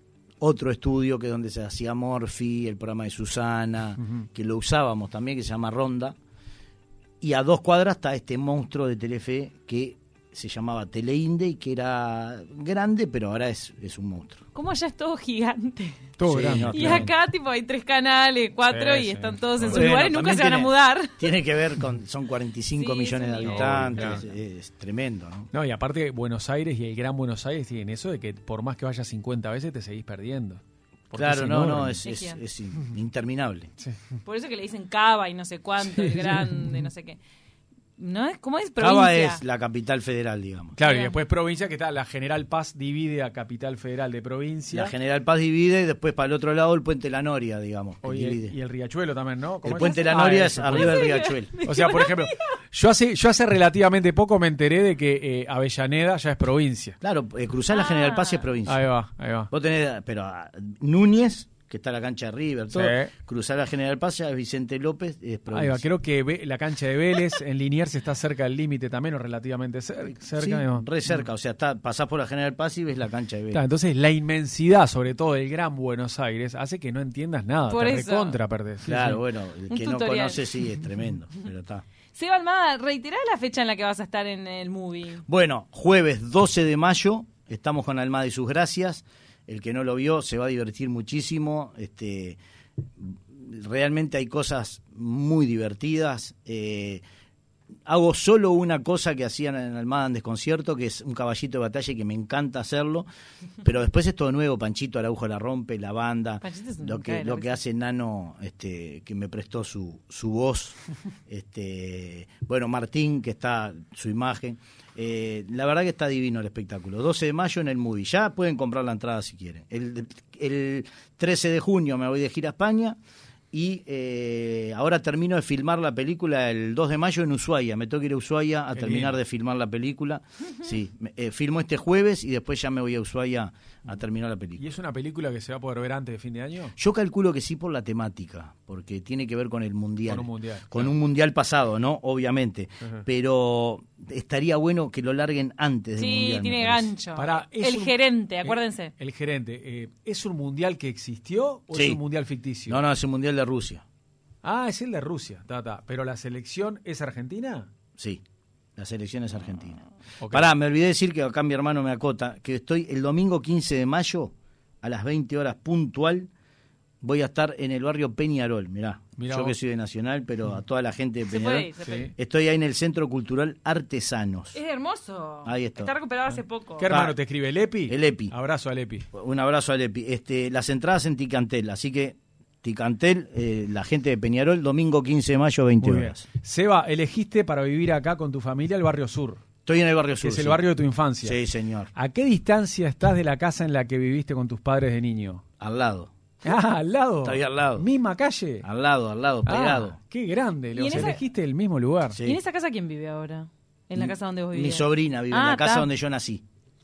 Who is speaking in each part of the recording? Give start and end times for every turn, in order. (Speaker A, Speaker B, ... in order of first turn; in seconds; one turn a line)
Speaker A: 0.4-6.2
Speaker B: 4.0-4.2
Speaker A: 7.2-14.4
Speaker C: 14.5-16.1
Speaker B: 16.2-17.1
Speaker A: 16.2-17.1
Speaker C: 16.7-21.2
Speaker B: 18.7-19.9
Speaker A: 19.7-25.5
Speaker C: 22.8-24.2
Speaker B: 23.4-24.2
Speaker B: 25.5-32.0
Speaker A: 31.1-33.7
Speaker C: 32.0-32.4
Speaker C: 34.2-37.2
Speaker B: 35.8-36.9
Speaker C: 38.0-39.4
Speaker A: 38.8-40.8
Speaker B: 40.8-44.9
Speaker C: 40.8-41.2
Speaker A: 44.7-48.5
Speaker B: 48.0-51.0
Speaker A: 49.6-51.5
Speaker C: 49.7-52.5
Speaker B: 51.6-57.0
Speaker A: 57.0-58.8
Speaker C: 57.7-58.4
Speaker B: 58.6-59.5
Speaker A: 59.5-65.8
Speaker B: 62.7-63.1
Speaker B: 65.5-71.1
Speaker A: 70.3-73.6
Speaker B: 73.5-79.2
Speaker C: 77.7-78.4
Speaker A: 78.8-81.8
Speaker C: 79.7-80.6
Speaker C: 82.1-85.2
Speaker A: 85.3-92.4
Speaker A: 93.0-97.0
Speaker A: 97.8-103.1
Speaker A: 103.6-110.8
Speaker C: 106.4-107.6
Speaker A: 111.3-123.0
Speaker A: 123.5-134.6
Speaker B: 128.7-129.2
Speaker B: 134.6-136.7
Speaker A: 136.8-146.9
Speaker B: 140.1-140.9
Speaker C: 146.0-148.9
Speaker B: 147.1-152.8
Speaker A: 151.7-152.0
Speaker A: 152.7-153.8
Speaker B: 154.4-157.7
Speaker A: 158.8-166.3
Speaker B: 160.2-160.5
Speaker A: 167.0-174.6
Speaker B: 169.2-169.6
Speaker C: 171.3-172.1
Speaker B: 171.8-172.1
Speaker C: 174.5-176.9
Speaker A: 175.4-175.9
Speaker B: 176.8-179.1
Speaker A: 176.9-177.2
Speaker A: 177.9-178.3
Speaker A: 179.1-186.2
Speaker B: 185.8-189.4
Speaker A: 189.6-190.6
Speaker B: 190.2-191.4
Speaker A: 191.2-191.9
Speaker B: 191.9-195.4
Speaker A: 195.6-196.1
Speaker B: 196.4-198.6
Speaker A: 197.2-197.8
Speaker A: 198.6-200.0
Speaker B: 199.4-202.2
Speaker C: 200.7-201.2
Speaker C: 202.2-205.9
Speaker A: 203.9-206.4